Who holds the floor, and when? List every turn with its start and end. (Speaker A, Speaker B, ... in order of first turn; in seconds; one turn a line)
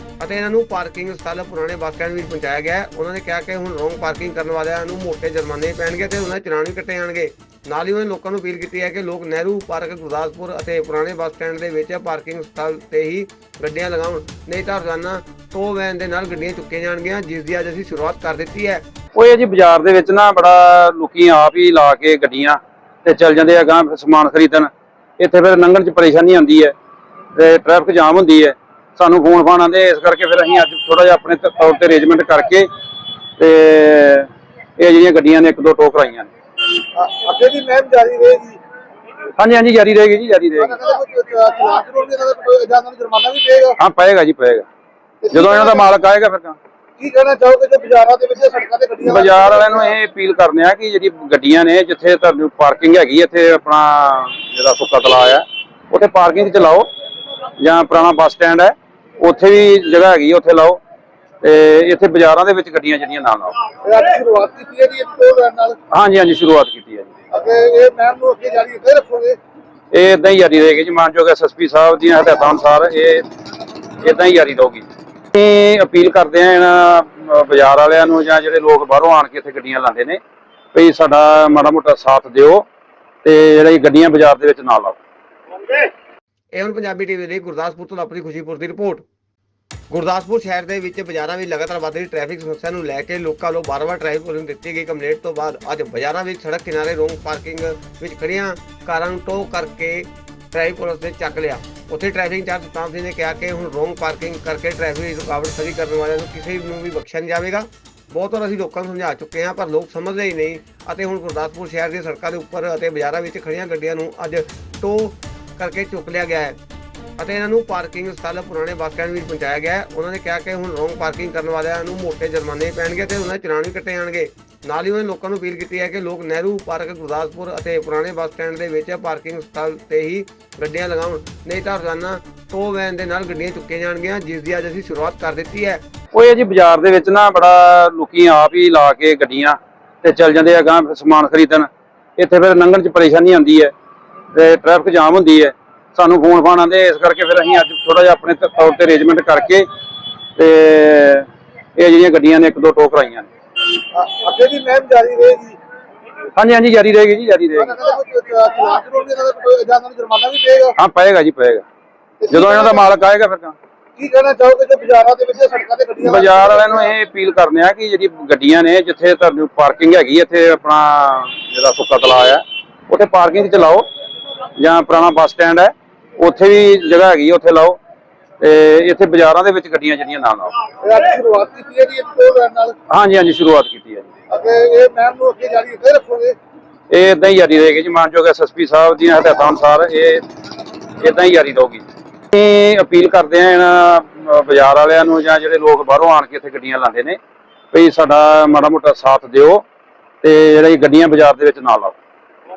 Speaker A: 0.2-18.8
Speaker B: 19.1-26.7
Speaker B: 27.4-32.7
Speaker B: 33.4-36.3
Speaker C: 36.9-38.6
Speaker B: 39.4-40.8
Speaker C: 40.6-43.8
Speaker B: 43.8-44.6
Speaker C: 45.2-45.9
Speaker B: 45.3-46.6
Speaker C: 47.0-50.0
Speaker B: 49.0-56.9
Speaker B: 57.6-60.8
Speaker B: 61.4-63.5
Speaker C: 63.8-65.8
Speaker B: 65.9-67.1
Speaker C: 67.3-69.4
Speaker B: 69.9-73.2
Speaker B: 74.0-80.2
Speaker B: 80.7-82.7
Speaker B: 83.2-85.0
Speaker A: 86.5-89.0
Speaker A: 89.9-116.6
Speaker A: 117.2-135.8
Speaker B: 136.1-143.7
Speaker B: 144.3-149.6
Speaker B: 150.4-151.2
Speaker B: 151.8-153.3
Speaker C: 153.9-155.6
Speaker B: 156.3-157.8
Speaker C: 157.6-160.8
Speaker B: 160.8-161.6
Speaker C: 162.2-162.9
Speaker B: 162.3-163.6
Speaker C: 164.0-166.9
Speaker B: 166.0-173.8
Speaker B: 174.6-177.8
Speaker B: 178.4-180.5
Speaker C: 180.8-182.7
Speaker B: 182.9-184.1
Speaker C: 184.3-186.4
Speaker B: 186.9-190.2
Speaker B: 191.0-197.2
Speaker B: 197.7-199.6
Speaker B: 200.2-201.9